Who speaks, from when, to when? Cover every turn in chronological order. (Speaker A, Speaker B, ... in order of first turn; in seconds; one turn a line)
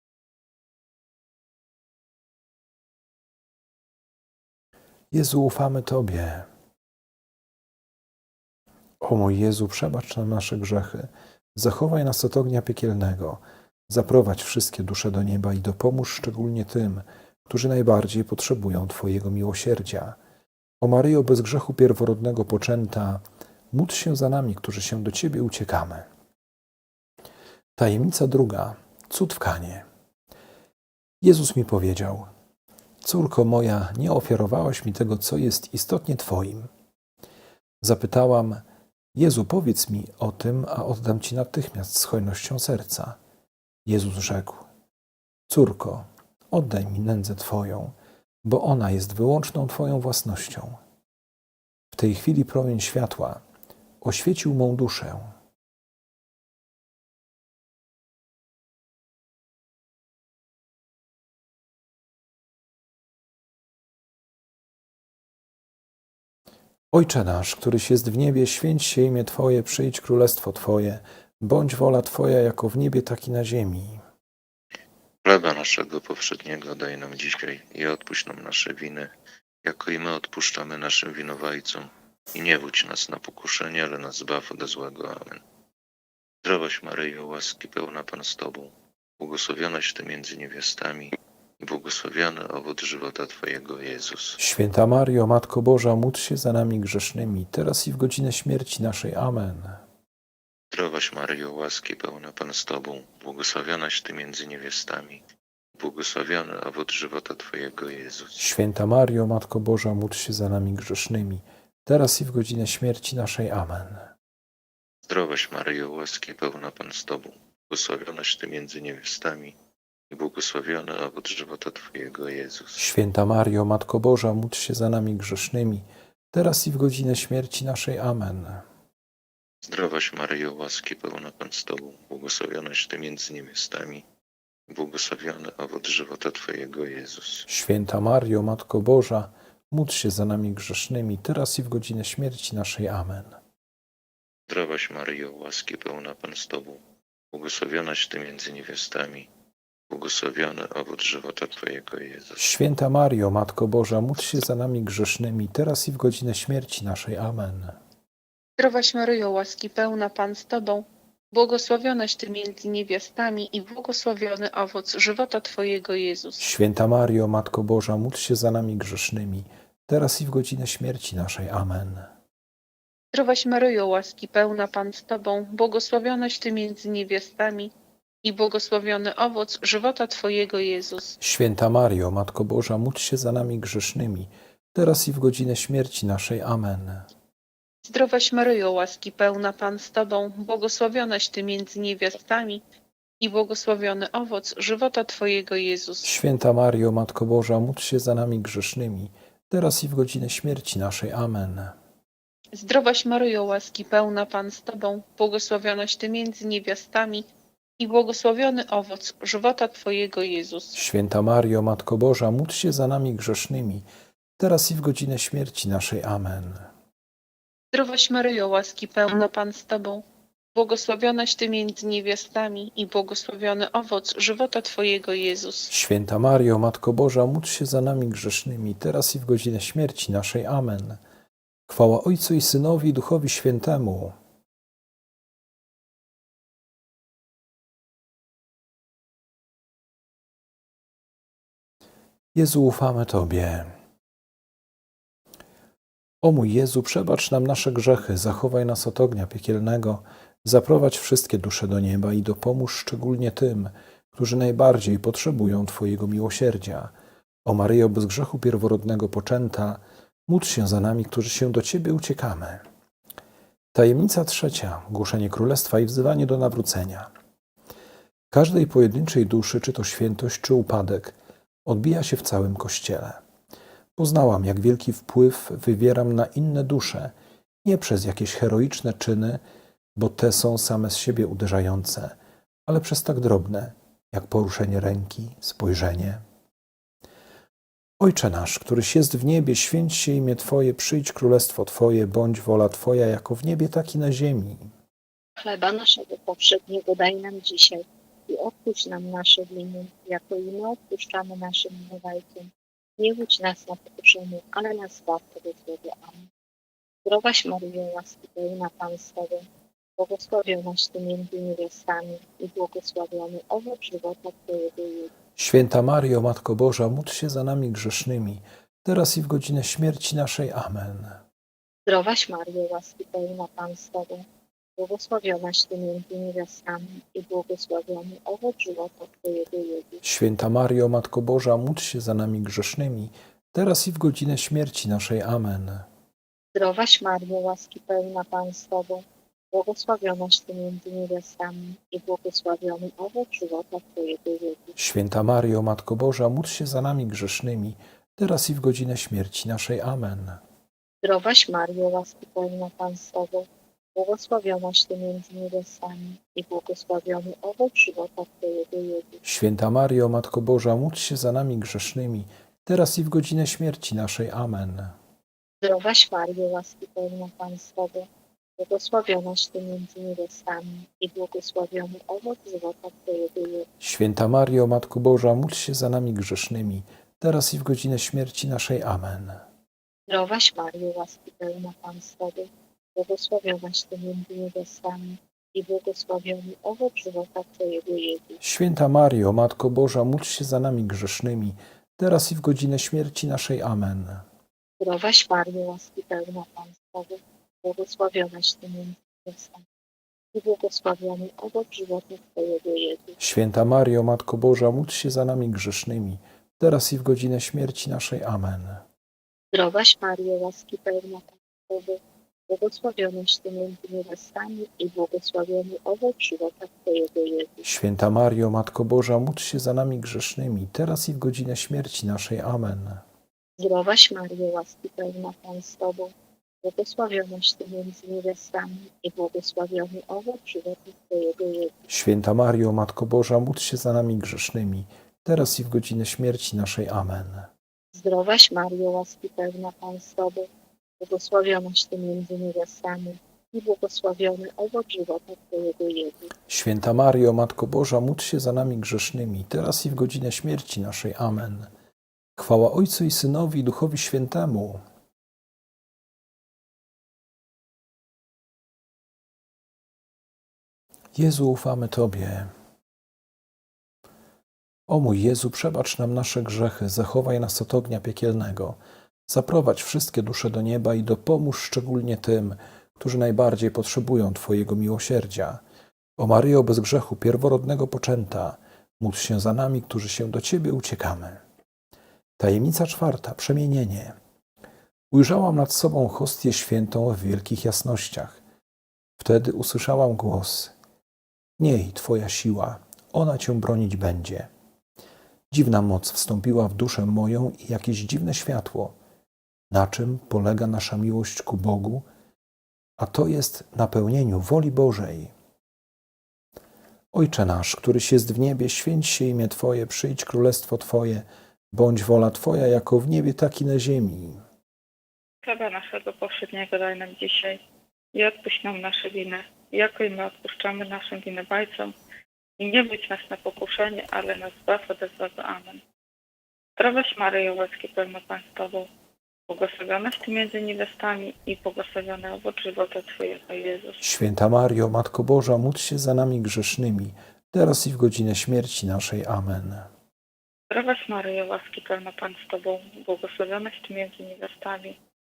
Speaker A: 5.1-6.5
Speaker A: 9.0-20.2
Speaker A: 20.8-26.1
Speaker A: 27.8-29.9
Speaker A: 31.2-32.3
Speaker A: 33.0-36.7
Speaker A: 37.8-43.2
Speaker A: 43.9-44.7
Speaker A: 45.5-50.8
Speaker A: 51.9-53.4
Speaker A: 54.0-55.3
Speaker A: 66.9-74.0
Speaker B: 75.2-79.1
Speaker B: 79.6-85.4
Speaker B: 86.4-94.4
Speaker A: 94.4-99.8
Speaker B: 100.7-105.2
Speaker B: 105.8-108.4
Speaker A: 108.4-114.1
Speaker B: 115.0-119.6
Speaker B: 120.1-122.8
Speaker A: 122.8-128.7
Speaker B: 129.7-134.1
Speaker B: 134.7-137.5
Speaker A: 137.5-143.4
Speaker B: 144.5-149.3
Speaker B: 149.9-152.4
Speaker A: 152.4-157.8
Speaker C: 158.6-166.4
Speaker A: 166.4-172.1
Speaker C: 173.1-181.2
Speaker A: 181.2-187.1
Speaker C: 187.8-192.6
Speaker C: 193.2-196.1
Speaker A: 196.0-201.8
Speaker C: 202.5-207.3
Speaker C: 207.8-210.8
Speaker A: 210.8-213.9
Speaker A: 214.4-216.7
Speaker C: 217.7-225.7
Speaker A: 225.7-231.0
Speaker A: 231.7-234.1
Speaker A: 242.3-243.8
Speaker A: 246.2-256.9
Speaker A: 257.4-262.6
Speaker A: 263.7-267.1
Speaker A: 268.3-273.2
Speaker A: 273.9-279.4
Speaker A: 279.9-286.2
Speaker A: 288.0-294.7
Speaker D: 295.4-306.3
Speaker D: 307.1-315.1
Speaker A: 315.4-321.2
Speaker D: 321.9-324.3
Speaker D: 324.8-330.0
Speaker A: 330.0-335.9
Speaker D: 336.5-344.8
Speaker A: 344.8-350.4
Speaker D: 351.0-359.2
Speaker A: 359.2-364.9
Speaker D: 365.6-373.7
Speaker A: 373.8-379.4
Speaker D: 380.1-388.4
Speaker A: 388.4-394.3
Speaker D: 394.8-399.6
Speaker D: 400.3-403.2
Speaker A: 403.2-408.8
Speaker D: 409.5-417.7
Speaker A: 417.6-423.0
Speaker D: 423.6-431.7
Speaker A: 431.9-437.5
Speaker D: 437.9-440.5
Speaker D: 441.0-446.3
Speaker A: 446.5-451.7
Speaker A: 452.4-454.8
Speaker A: 461.1-462.5
Speaker A: 464.9-475.6
Speaker A: 476.2-481.4
Speaker A: 482.4-484.2
Speaker A: 485.1-488.4
Speaker A: 489.2-490.8
Speaker A: 491.6-494.5
Speaker A: 495.5-498.9
Speaker A: 499.7-502.1
Speaker A: 503.0-505.3
Speaker A: 507.1-514.4
Speaker E: 515.4-517.6
Speaker E: 518.1-521.9
Speaker E: 522.6-525.8
Speaker E: 526.8-528.9
Speaker E: 529.5-534.0
Speaker A: 534.0-539.9
Speaker E: 540.7-545.0